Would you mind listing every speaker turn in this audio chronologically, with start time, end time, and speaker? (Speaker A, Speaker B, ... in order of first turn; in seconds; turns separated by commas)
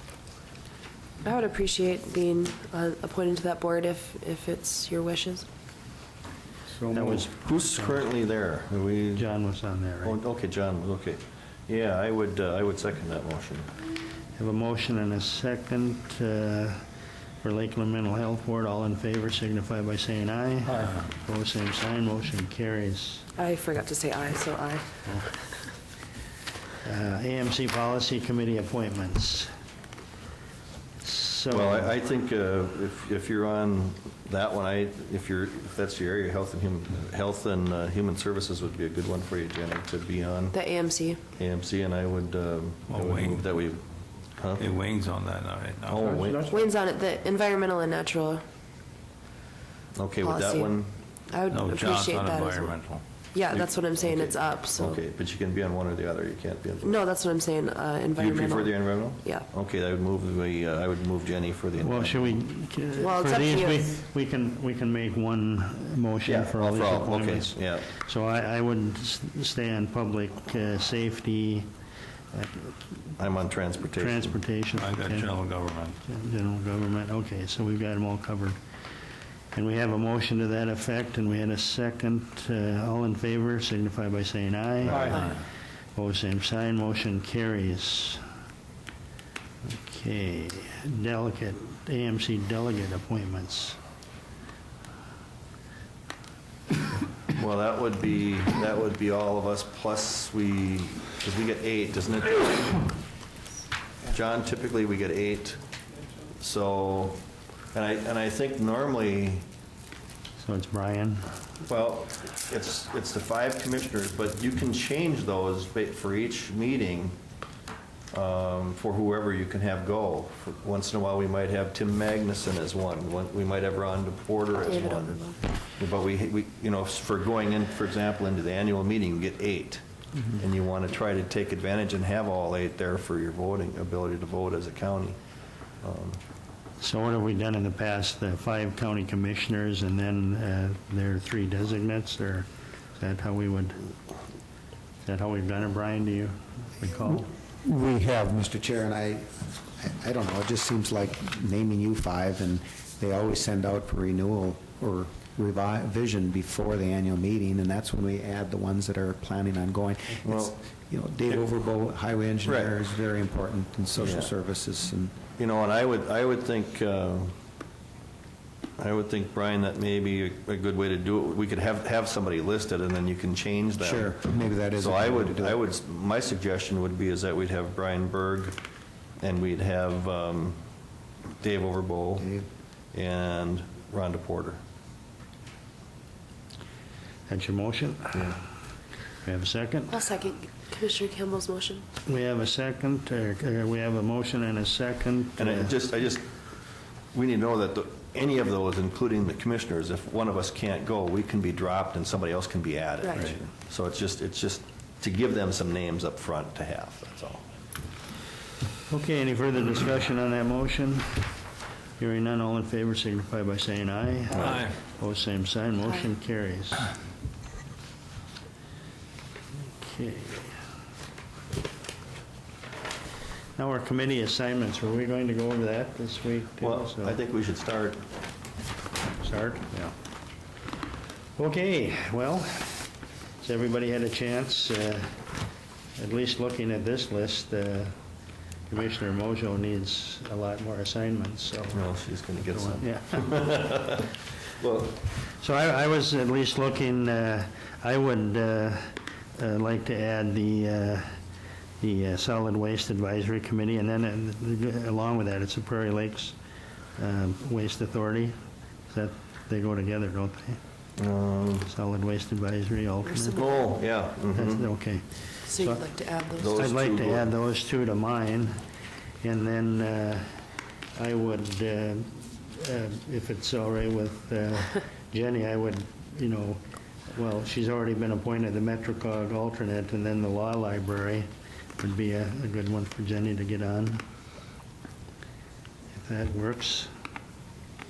Speaker A: 1.2-5.5, Speaker B: 6.8-7.2, Speaker C: 6.9-8.1, Speaker D: 7.4-9.3, Speaker C: 9.2-10.2, Speaker D: 10.0-13.7, Speaker C: 14.4-16.9, Speaker C: 17.4-23.3, Speaker A: 23.4-25.4, Speaker C: 26.8-29.5, Speaker C: 31.0-31.9, Speaker D: 31.5-40.6, Speaker A: 40.5-41.2, Speaker D: 41.4-43.8, Speaker E: 42.9-43.5, Speaker D: 44.4-44.7, Speaker E: 44.6-46.4, Speaker D: 45.9-46.5, Speaker A: 46.4-48.4, Speaker D: 50.0-50.9, Speaker A: 50.2-52.7, Speaker E: 51.5-53.0, Speaker A: 53.3-55.0, Speaker D: 53.5-57.0, Speaker A: 56.8-59.5, Speaker D: 58.2-62.4, Speaker C: 61.8-71.7, Speaker A: 63.0-63.9, Speaker D: 66.3-67.9, Speaker C: 72.3-73.0, Speaker D: 73.2-74.4, Speaker C: 74.0-75.4, Speaker E: 74.8-76.0, Speaker C: 76.0-78.6, Speaker C: 79.5-85.3, Speaker E: 84.9-85.4, Speaker C: 86.0-88.2, Speaker C: 89.7-93.8, Speaker D: 97.4-102.9, Speaker D: 104.1-105.6, Speaker D: 106.4-109.5, Speaker C: 110.4-111.3, Speaker D: 111.7-117.2, Speaker D: 118.1-129.8, Speaker A: 124.6-125.4, Speaker D: 130.3-135.2, Speaker D: 135.8-136.2, Speaker C: 136.8-143.9, Speaker C: 145.1-147.3, Speaker B: 147.6-165.2, Speaker D: 160.2-160.5, Speaker D: 162.4-162.8, Speaker D: 164.0-164.3, Speaker D: 165.4-167.3, Speaker D: 168.8-174.2, Speaker B: 173.8-175.6, Speaker D: 174.7-178.6, Speaker D: 179.2-180.6, Speaker D: 181.4-182.3, Speaker B: 182.2-182.5, Speaker D: 182.9-184.6, Speaker C: 187.3-188.4, Speaker D: 188.1-188.4, Speaker C: 189.2-190.0, Speaker A: 189.9-191.8, Speaker C: 192.1-195.8, Speaker D: 195.4-196.3, Speaker D: 197.1-207.4, Speaker A: 203.0-203.4, Speaker C: 208.9-211.3, Speaker C: 212.0-216.9, Speaker D: 214.4-214.7, Speaker E: 214.4-214.7, Speaker C: 219.8-220.6, Speaker C: 223.6-227.2, Speaker D: 226.6-228.0, Speaker C: 229.2-229.9, Speaker C: 231.4-232.9, Speaker C: 233.4-235.2, Speaker C: 236.0-238.0, Speaker C: 238.7-241.8, Speaker D: 241.7-245.0, Speaker C: 242.4-243.6, Speaker C: 245.2-251.2, Speaker C: 251.8-256.4, Speaker C: 257.0-260.6, Speaker D: 261.0-261.7, Speaker C: 261.6-263.7, Speaker A: 263.1-263.7, Speaker D: 263.4-264.7, Speaker C: 264.3-268.6, Speaker A: 265.5-266.5, Speaker D: 266.4-267.3, Speaker C: 269.2-284.0, Speaker C: 285.9-286.9